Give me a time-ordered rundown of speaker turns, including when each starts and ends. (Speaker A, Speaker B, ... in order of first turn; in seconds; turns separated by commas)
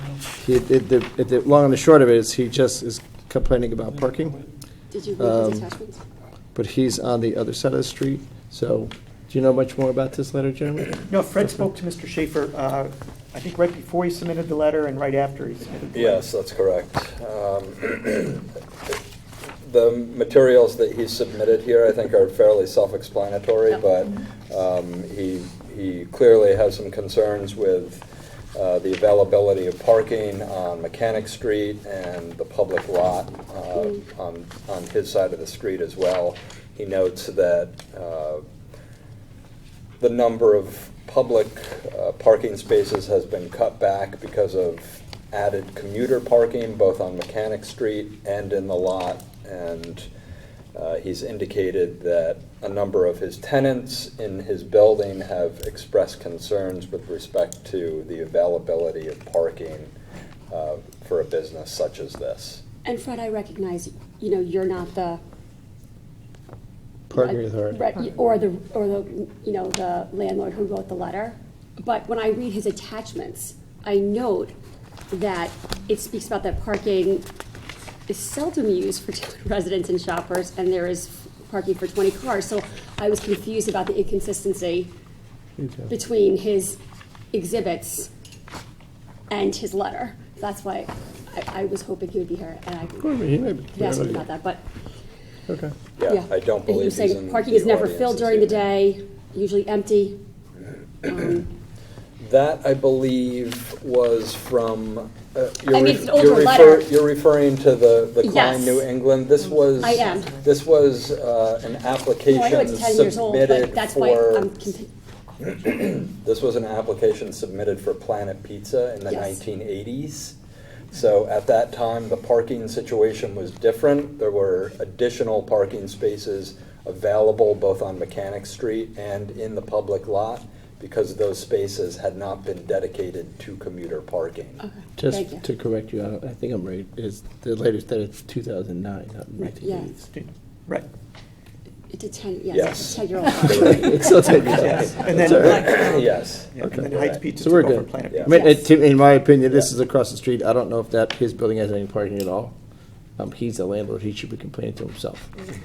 Speaker A: 0.4-4.4, Speaker B: 4.9-6.0, Speaker A: 5.2-5.7, Speaker A: 6.5-11.0, Speaker C: 11.1-16.2, Speaker D: 15.9-19.0, Speaker D: 19.6-38.4, Speaker D: 40.0-50.1, Speaker D: 50.7-59.9, Speaker D: 60.5-62.6, Speaker B: 62.8-65.2, Speaker A: 67.1-67.8, Speaker B: 67.1-74.5, Speaker B: 75.1-77.3, Speaker B: 78.1-84.9, Speaker A: 85.6-85.9, Speaker B: 85.9-86.8, Speaker B: 87.3-88.1, Speaker B: 89.3-93.1, Speaker A: 93.0-94.2, Speaker B: 93.7-94.6, Speaker A: 95.5-95.7, Speaker D: 96.0-98.7, Speaker B: 96.1-100.2, Speaker B: 101.0-101.5, Speaker D: 102.2-114.5, Speaker B: 105.7-106.9, Speaker B: 108.2-108.9, Speaker B: 109.8-110.3, Speaker B: 112.3-114.9, Speaker D: 115.5-120.3, Speaker B: 119.1-119.4, Speaker D: 120.9-134.6, Speaker B: 134.6-135.4, Speaker A: 135.0-140.0, Speaker B: 139.4-139.9, Speaker C: 140.1-140.8, Speaker B: 141.9-144.7, Speaker D: 142.5-147.2, Speaker A: 143.4-145.7, Speaker C: 144.5-148.5, Speaker A: 146.6-152.5, Speaker B: 148.2-148.7, Speaker A: 153.2-155.3